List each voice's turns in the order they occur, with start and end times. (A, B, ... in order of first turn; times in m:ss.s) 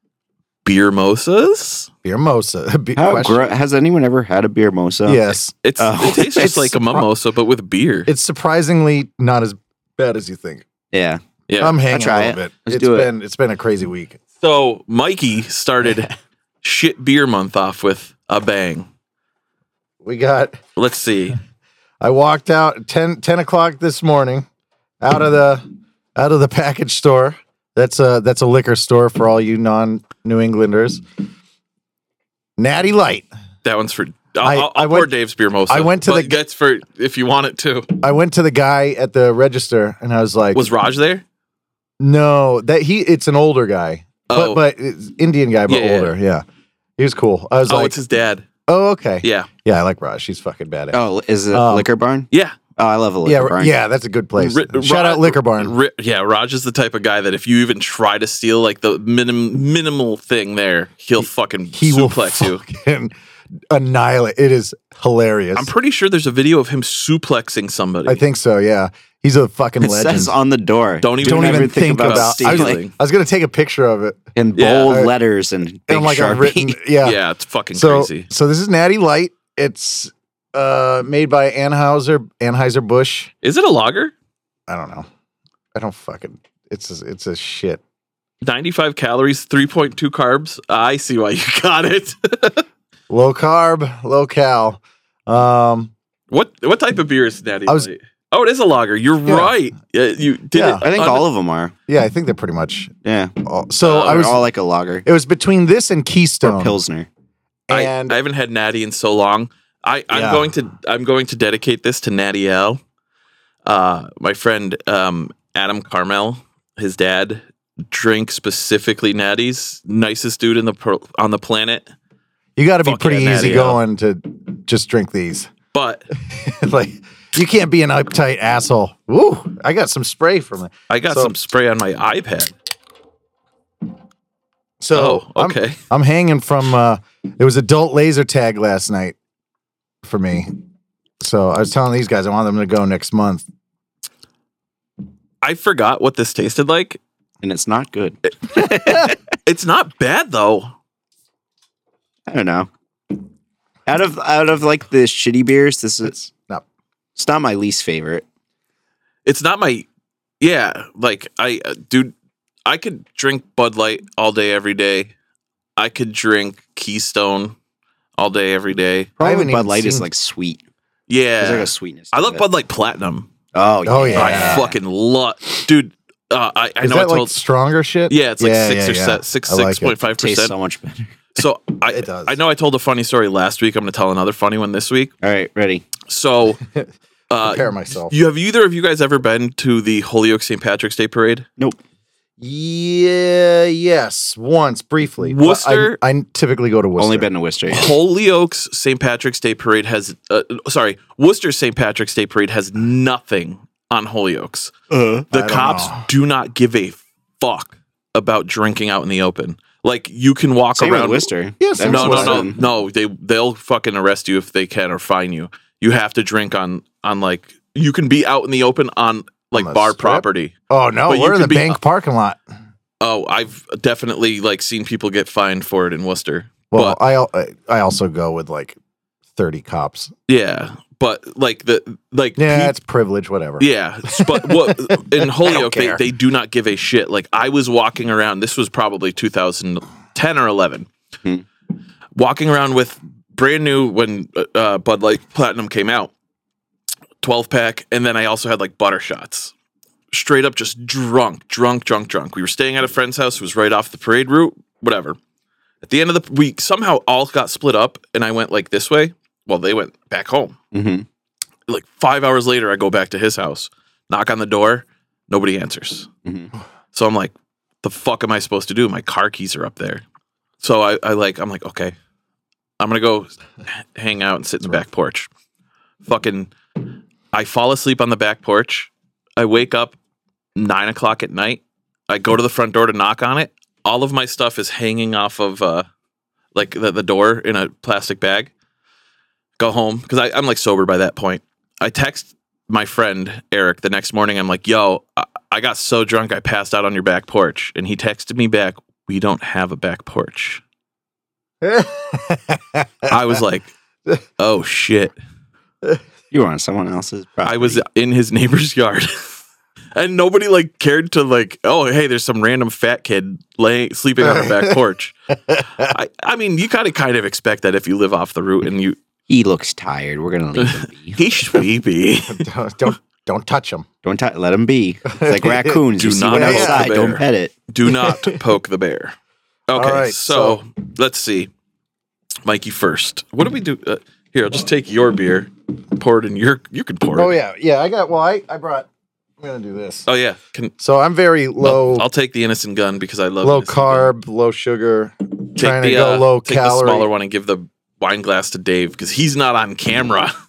0:00.6-0:01.9 A
0:02.0-0:03.5 B
0:03.0-0:05.2 C
0:05.0-0:05.5 B
0:05.6-0:08.1 A
0:05.8-0:06.7 C
0:06.2-0:07.0 B
0:08.1-0:10.7 B
0:10.9-0:11.2 C
0:11.5-0:11.8 A
0:11.6-0:14.2 B
0:11.9-0:13.1 C
0:14.4-0:18.9 A
0:20.0-0:20.6 B
0:20.8-0:21.4 A
0:22.0-0:24.5 B
0:25.0-0:25.6 B
0:26.2-0:31.0 B
0:32.6-0:33.3 B
0:33.6-0:37.9 A
0:34.4-0:35.1 B
0:35.7-0:36.4 B
0:38.0-0:40.6 B
0:40.5-0:41.2 A
0:42.0-0:46.4 B
0:44.3-0:44.6 A
0:45.7-0:46.1 A
0:47.0-0:48.0 B
0:47.6-0:48.5 A
0:48.7-0:51.0 B
0:49.2-0:49.5 A
0:50.9-0:53.7 C
0:51.5-0:51.9 B
0:52.3-0:52.6 A
0:53.2-0:55.8 B
0:54.4-1:02.6 A
1:01.7-1:03.1 B
1:03.7-1:05.7 B
1:05.5-1:08.2 A
1:08.0-1:10.3 B
1:09.8-1:12.8 C
1:11.0-1:12.9 A
1:11.2-1:14.2 B
1:14.3-1:16.8 C
1:14.6-1:15.0 A
1:14.8-1:15.1 B
1:15.9-1:17.2 B
1:17.0-1:18.3 A
1:17.7-1:23.3 B
1:23.4-1:24.1 A
1:24.7-1:25.1 B
1:25.7-1:27.8 B
1:28.4-1:32.6 A
1:33.1-1:35.9 B
1:36.3-1:41.2 A
1:39.2-1:39.5 B
1:40.5-1:40.8 B
1:40.8-1:41.7 C
1:41.9-1:42.9 B
1:43.0-1:43.3 C
1:43.4-1:44.4 B
1:43.8-1:44.2 A
1:43.9-1:45.0 C
1:45.0-1:46.8 B
1:46.4-1:47.1 C
1:47.7-1:48.2 B
1:47.7-1:52.8 A
1:50.1-1:50.5 B
1:53.6-2:01.9 A
2:02.6-2:05.5 B
2:02.8-2:03.8 A
2:05.7-2:06.0 A
2:06.2-2:11.3 B
2:10.9-2:12.5 A
2:14.8-2:19.2 B
2:14.9-2:15.8 A
2:20.0-2:20.6 B
2:21.2-2:23.4 B
2:25.4-2:27.0 A
2:27.4-2:29.2 C
2:29.4-2:30.7 A
2:32.3-2:32.7 C
2:33.9-2:36.2 C
2:36.0-2:36.6 B
2:37.2-2:38.2 C
2:39.2-2:39.8 A
2:40.4-2:42.1 A
2:42.6-2:45.1 A
2:45.8-2:47.6 A
2:48.2-2:49.1 A
2:49.2-2:50.1 B
2:49.2-2:50.6 C
2:51.1-2:53.3 A
2:51.4-2:52.4 C
2:53.5-2:54.7 C
2:53.8-2:54.7 B
2:54.1-2:57.3 A
2:56.8-3:00.0 B
2:58.1-3:00.5 A
3:00.2-3:01.2 C
3:01.4-3:05.1 A
3:01.9-3:02.4 B
3:05.2-3:05.9 C
3:06.1-3:06.6 A
3:07.3-3:11.5 A
3:07.4-3:08.1 B
3:12.4-3:17.3 B
3:15.2-3:16.0 A
3:17.0-3:17.9 C
3:17.7-3:24.7 A
3:24.9-3:25.2 C
3:25.3-3:31.3 A
3:25.3-3:26.1 B
3:30.8-3:32.6 C
3:31.6-3:32.5 B
3:31.8-3:40.5 A
3:39.5-3:42.4 B
3:41.1-3:41.8 A
3:43.0-3:47.0 A
3:46.7-3:48.8 B
3:49.3-3:50.1 B
3:50.3-3:52.7 A
3:52.4-3:56.0 B
3:53.6-4:00.9 A
4:02.1-4:06.1 A
4:07.2-4:09.5 A
4:10.1-4:15.2 A
4:15.8-4:20.6 A
4:20.7-4:21.0 C
4:21.7-4:26.1 A
4:26.2-4:26.5 C
4:26.9-4:30.0 A
4:30.6-4:31.9 A
4:32.8-4:35.3 A
4:36.0-4:36.5 A
4:37.3-4:40.0 A
4:40.6-4:45.9 A
4:46.5-4:48.5 A
4:49.6-5:00.6 A
5:01.6-5:03.1 B
5:03.1-5:03.7 A
5:04.4-5:05.1 A
5:06.3-5:07.8 C
5:07.4-5:09.1 A
5:09.9-5:15.1 A
5:14.2-5:14.8 B
5:15.3-5:15.9 B
5:15.8-5:19.0 A
5:19.3-5:21.3 C
5:20.6-5:22.5 A
5:22.2-5:23.9 B
5:24.0-5:27.5 C
5:25.1-5:27.1 B
5:26.0-5:29.1 A
5:27.9-5:28.4 B
5:29.7-5:31.5 A
5:29.7-5:30.6 B
5:32.4-5:37.3 A
5:37.1-5:38.9 B
5:39.4-5:40.1 B
5:40.1-5:40.7 A
5:40.8-5:42.0 B
5:41.6-5:44.1 A
5:43.4-5:47.1 B
5:45.6-5:50.3 A